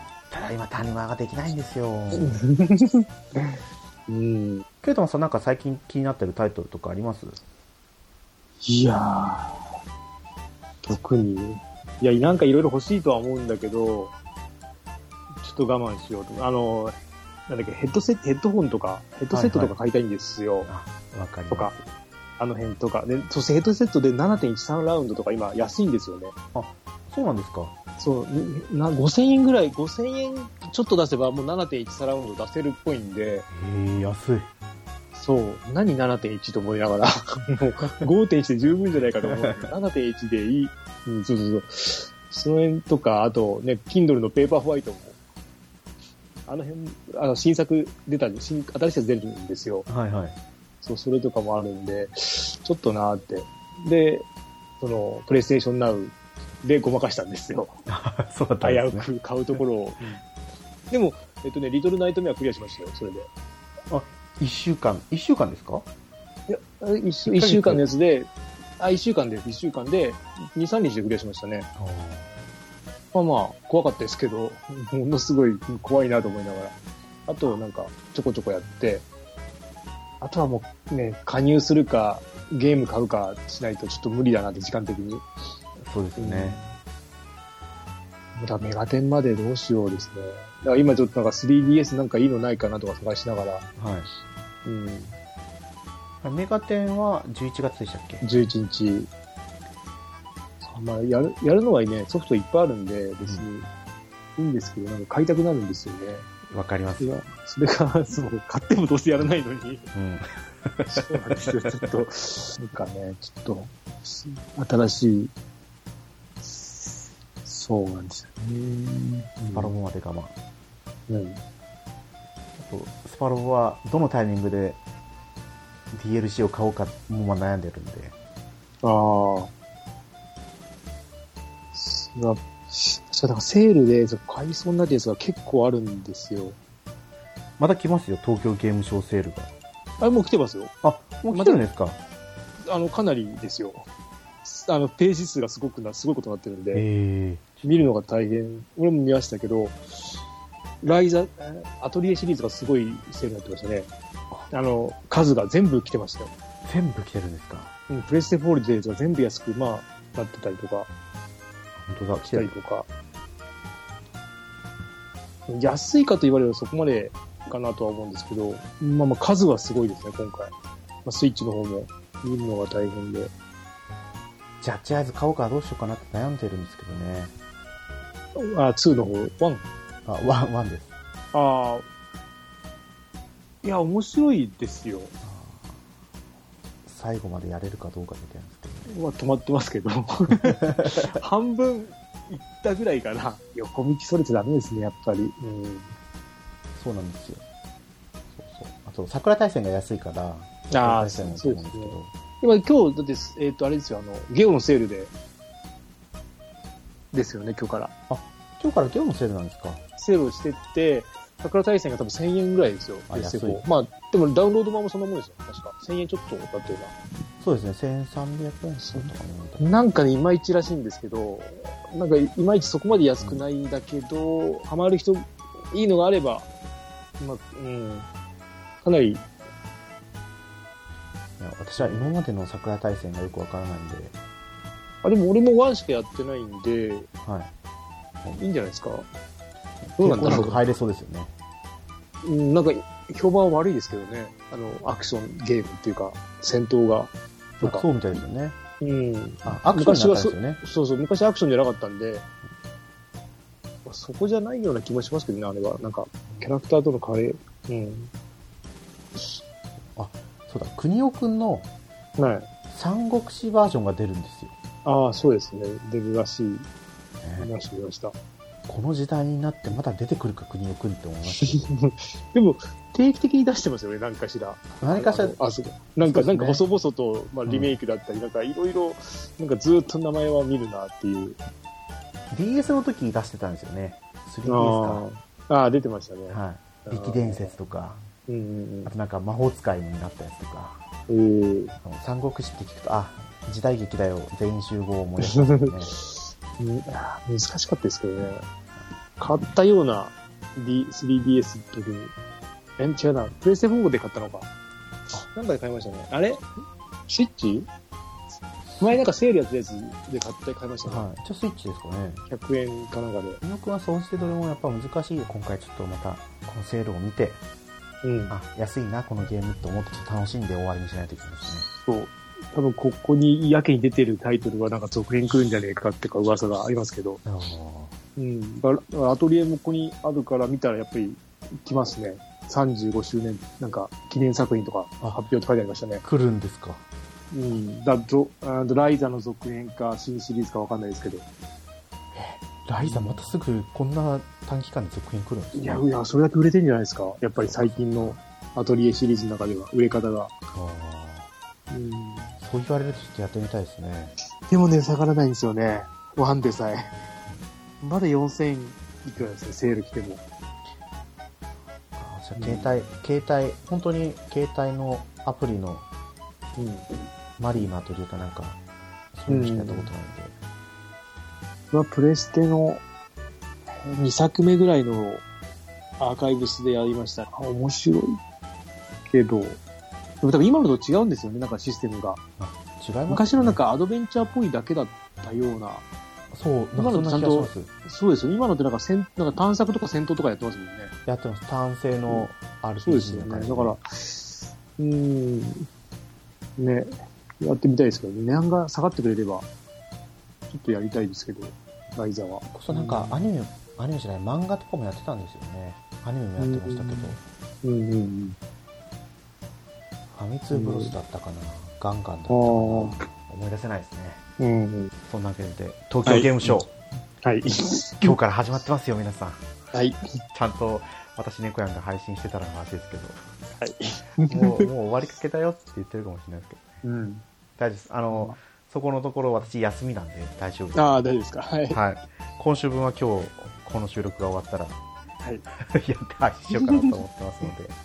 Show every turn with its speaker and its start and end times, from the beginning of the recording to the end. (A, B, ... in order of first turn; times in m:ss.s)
0:00.3-0:02.4 A
0:02.1-0:04.7 B
0:04.8-0:07.4 A
0:08.6-0:09.6 B
0:10.8-0:14.1 B
0:15.4-0:20.7 B
0:19.3-0:19.8 A
0:20.7-0:21.9 A
0:22.4-0:26.3 B
0:26.5-0:27.8 A
0:28.0-0:33.5 B
0:33.5-0:34.5 A
0:35.2-0:45.2 B
0:39.2-0:39.7 A
0:46.5-0:49.9 B
0:49.9-0:50.4 A
0:50.8-0:54.3 B
0:54.8-0:57.8 B
0:57.9-0:59.1 A
0:58.6-1:00.2 B
1:00.9-1:03.3 B
1:03.9-1:05.9 A
1:06.5-1:11.7 B
1:07.3-1:07.8 A
1:11.8-1:12.3 A
1:13.1-1:16.8 B
1:17.3-1:19.1 B
1:20.2-1:25.2 B
1:25.8-1:26.6 A
1:26.2-1:26.8 B
1:28.4-1:33.7 B
1:33.8-1:34.1 A
1:34.6-1:35.2 B
1:36.2-1:38.2 A
1:38.2-1:39.1 B
1:40.6-1:43.7 B
1:44.4-1:46.3 B
1:46.5-1:47.2 A
1:47.0-1:49.9 B
1:49.9-1:51.5 A
1:50.9-1:55.3 B
1:56.4-1:59.7 B
1:59.4-2:00.4 A
2:01.1-2:01.4 B
2:02.6-2:04.8 A
2:05.9-2:08.2 A
2:08.8-2:09.5 B
2:11.7-2:16.6 B
2:17.6-2:19.5 A
2:20.0-2:20.7 B
2:20.8-2:22.0 A
2:21.3-2:21.6 B
2:22.6-2:23.9 B
2:24.4-2:26.8 B
2:26.7-2:27.9 A
2:27.6-2:30.2 B
2:30.8-2:33.9 B
2:34.5-2:36.3 B
2:36.6-2:37.7 A
2:37.9-2:40.9 B
2:41.8-2:42.5 A
2:42.3-2:42.9 B
2:45.5-2:50.5 B
2:51.0-2:53.3 B
2:54.6-2:57.3 A
2:58.4-2:59.7 B
3:00.1-3:00.9 A
3:01.3-3:01.9 B
3:03.6-3:05.1 B
3:05.2-3:05.8 A
3:06.9-3:08.9 A
3:08.9-3:16.0 B
3:10.8-3:11.2 A
3:16.8-3:17.4 A
3:18.4-3:22.1 A
3:20.7-3:25.1 B
3:27.1-3:27.9 B
3:28.1-3:29.8 A
3:30.0-3:36.9 B
3:33.1-3:33.6 A
3:37.4-3:39.7 A
3:38.9-3:46.5 B
3:47.2-3:48.1 B
3:48.8-3:49.2 B
3:51.4-3:54.2 A
3:51.8-3:52.1 B
3:55.0-3:57.1 B
3:57.2-3:57.5 A
3:58.4-3:59.1 B
3:59.8-4:01.3 A
4:00.0-4:00.6 B
4:02.2-4:07.9 B
4:07.6-4:08.6 A
4:08.8-4:12.3 B
4:09.4-4:10.6 A
4:13.8-4:18.1 B
4:20.0-4:21.7 A
4:22.2-4:22.5 B
4:22.7-4:24.6 A
4:24.8-4:26.7 B
4:27.2-4:27.5 A
4:27.4-4:28.2 B
4:28.7-4:31.6 A
4:31.4-4:41.4 B
4:34.8-4:35.4 A
4:36.0-4:36.6 A
4:37.5-4:37.8 A
4:42.3-4:45.1 A
4:44.5-4:47.6 B
4:46.3-4:48.0 A
4:48.3-4:48.9 B
4:48.9-4:50.8 A
4:51.1-4:51.8 B
4:51.8-4:55.9 A
4:55.2-4:58.5 B
4:59.2-5:02.1 B
5:02.8-5:04.5 B
5:05.2-5:06.5 B
5:07.1-5:07.7 B
5:08.8-5:11.1 B
5:10.8-5:12.3 A
5:12.3-5:13.4 B
5:13.4-5:17.4 A
5:18.0-5:18.3 B
5:18.3-5:21.7 A
5:21.8-5:27.2 B
5:27.2-5:28.0 A
5:28.2-5:36.0 B
5:36.0-5:36.8 A
5:37.3-5:41.3 B
5:42.1-5:45.9 A
5:42.8-5:43.3 B
5:45.5-5:50.3 B
5:47.4-5:48.2 A
5:50.6-5:51.3 A
5:51.7-5:52.4 B
5:52.4-5:54.1 A
5:54.5-5:57.0 B
5:57.8-6:00.2 B
6:02.0-6:05.9 A
6:02.4-6:02.9 B
6:06.6-6:07.1 B
6:07.4-6:08.6 A
6:09.1-6:10.4 A
6:09.3-6:09.9 B
6:11.7-6:12.8 B
6:13.8-6:15.2 B
6:16.0-6:18.2 B
6:19.1-6:19.6 B
6:20.2-6:22.2 B
6:22.4-6:23.6 A
6:23.1-6:25.9 B
6:26.3-6:27.7 A
6:26.8-6:30.9 B
6:31.1-6:33.8 A
6:32.8-6:35.7 B
6:36.6-6:39.5 B
6:40.5-6:43.3 B
6:42.5-6:47.2 A
6:46.4-6:48.4 B
6:50.1-6:54.2 A
6:50.5-6:51.0 B
6:52.3-6:53.0 B
6:54.4-6:54.9 B
6:55.1-6:56.7 A
6:56.1-6:56.6 B
6:57.2-6:58.2 B
6:58.0-6:59.4 A
6:59.7-7:00.0 B
7:00.3-7:03.2 A
7:03.6-7:04.7 B
7:04.3-7:06.7 A
7:06.8-7:07.2 B
7:07.6-7:10.8 A
7:08.1-7:08.4 B
7:10.7-7:11.8 B
7:11.7-7:14.8 A
7:15.5-7:17.8 A
7:16.5-7:17.0 B